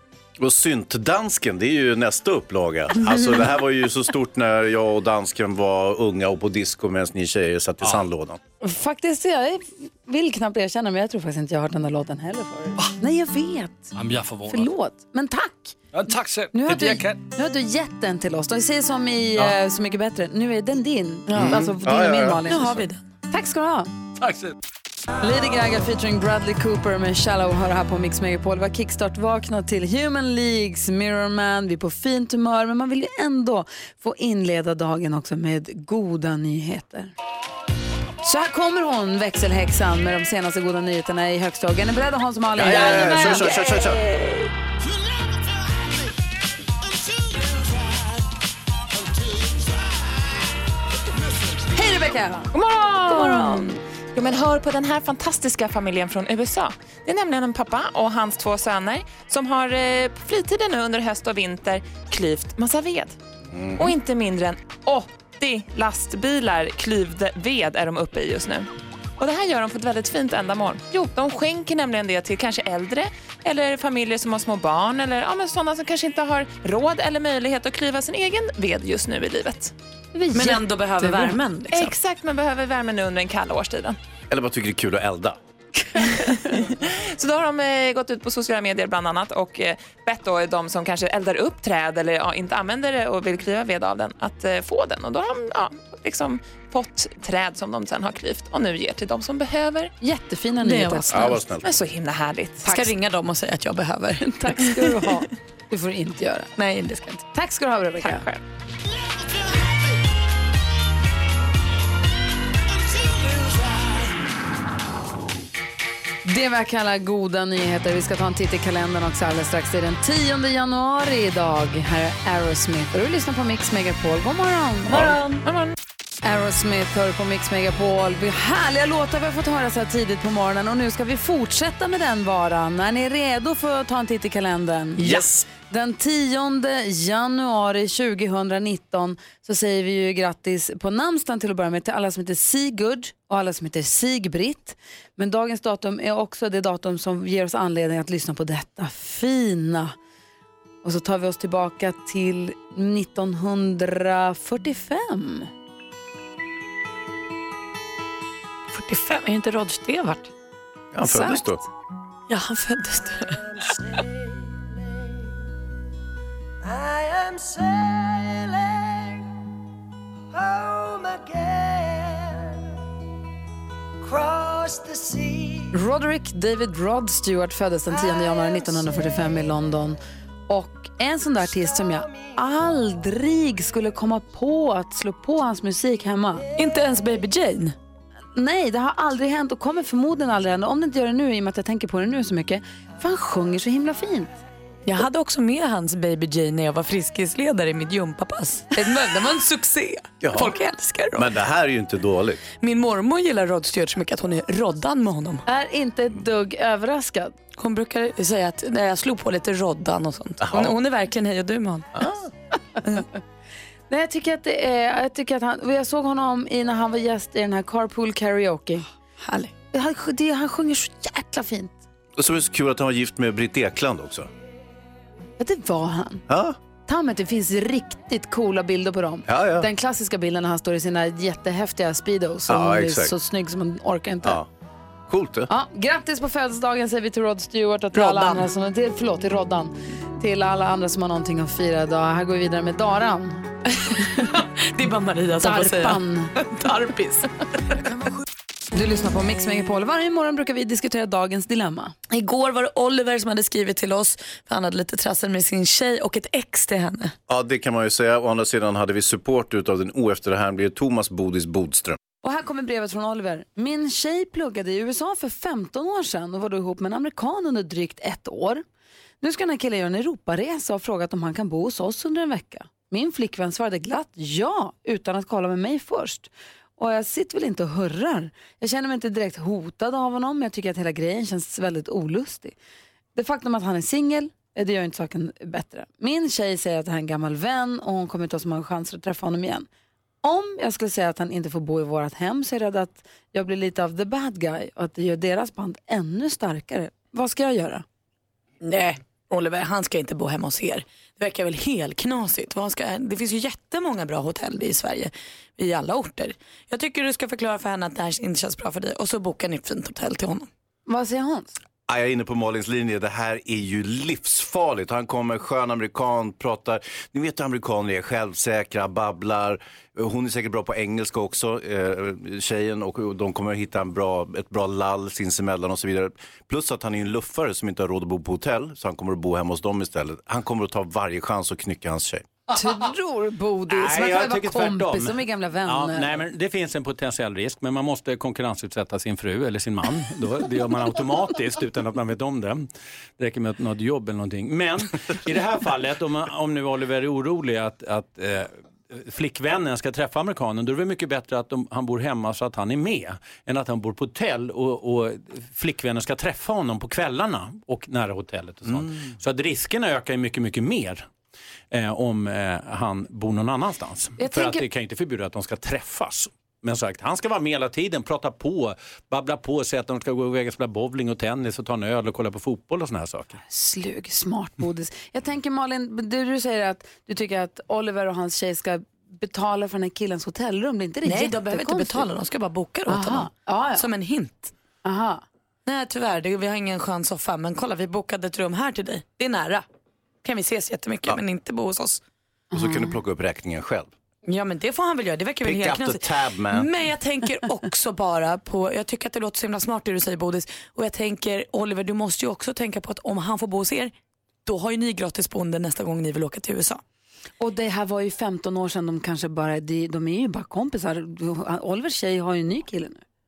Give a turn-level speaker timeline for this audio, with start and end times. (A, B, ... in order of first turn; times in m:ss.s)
0:00.4-0:08.4 A
0:08.6-0:13.9 B
0:13.9-0:14.7 C
0:14.5-0:15.8 B
0:15.9-0:17.2 C
0:16.5-0:23.9 B
0:21.3-0:21.8 D
0:21.3-0:22.4 A
0:22.4-0:23.0 D
0:24.2-0:24.5 C
0:25.2-0:37.1 B
0:38.2-0:44.3 B
0:42.5-0:44.0 A
0:51.7-0:52.5 B
0:52.5-1:03.2 E
0:53.1-0:53.6 D
1:03.5-1:03.9 A
1:03.8-1:08.7 E
1:09.2-1:19.7 E
1:20.1-1:20.5 B
1:20.3-1:21.9 D
1:21.7-1:24.0 E
1:24.3-1:25.4 A
1:26.0-1:39.9 E
1:40.0-1:41.4 B
1:40.6-1:41.3 D
1:41.1-1:41.7 A
1:41.6-1:42.7 E
1:42.6-1:44.8 D
1:44.2-1:46.5 B
1:46.6-1:47.2 D
1:47.3-1:48.2 B
1:48.0-1:48.4 E
1:56.2-2:05.2 B
2:05.4-2:05.7 E
2:06.2-2:30.0 B
2:15.0-2:15.4 A
2:30.8-2:35.5 B
2:38.7-2:40.3 D
2:40.9-2:41.6 A
2:41.0-2:41.4 D
2:42.3-2:43.4 D
2:55.7-3:06.4 B
3:06.5-3:07.7 D
3:08.3-3:14.4 B
3:14.8-3:21.3 D
3:18.8-3:19.4 B
3:20.2-3:20.5 A
3:21.2-3:22.4 A
3:22.6-3:25.4 D
3:25.4-3:27.4 B
3:27.6-3:31.9 D
3:30.4-3:30.7 A
3:31.9-3:32.3 A
3:32.8-3:33.0 B
3:33.9-3:38.9 B
3:39.2-3:39.5 D
3:39.7-3:41.8 B
3:42.2-3:44.3 A
3:45.4-3:46.2 B
3:46.3-3:46.6 A
3:46.8-3:54.4 B
3:49.2-3:49.7 A
3:52.5-3:53.1 A
3:55.1-3:55.5 A
3:55.5-4:03.4 B
3:57.9-3:58.5 D
4:03.8-4:08.1 D
4:05.4-4:06.4 B
4:08.7-4:11.9 B
4:12.1-4:17.1 D
4:17.3-4:22.0 A
4:22.2-4:28.6 B
4:29.2-4:42.6 B
4:43.1-4:49.7 B
4:50.2-4:57.8 B
4:58.6-5:10.5 D
5:10.9-5:11.6 B
5:11.9-5:32.2 A
5:32.5-5:36.1 B
5:33.7-6:01.0 F
6:01.7-6:13.4 F
6:04.2-6:04.6 B
6:13.4-6:22.0 B
6:21.0-6:24.5 D
6:22.9-6:23.9 B
6:24.8-6:25.2 B
6:25.6-6:29.6 D
6:30.2-6:32.0 D
6:32.5-6:33.0 B
6:32.5-6:33.9 A
6:34.2-6:43.9 D
6:35.4-6:36.7 A
6:44.4-6:46.8 D
6:47.4-6:53.0 B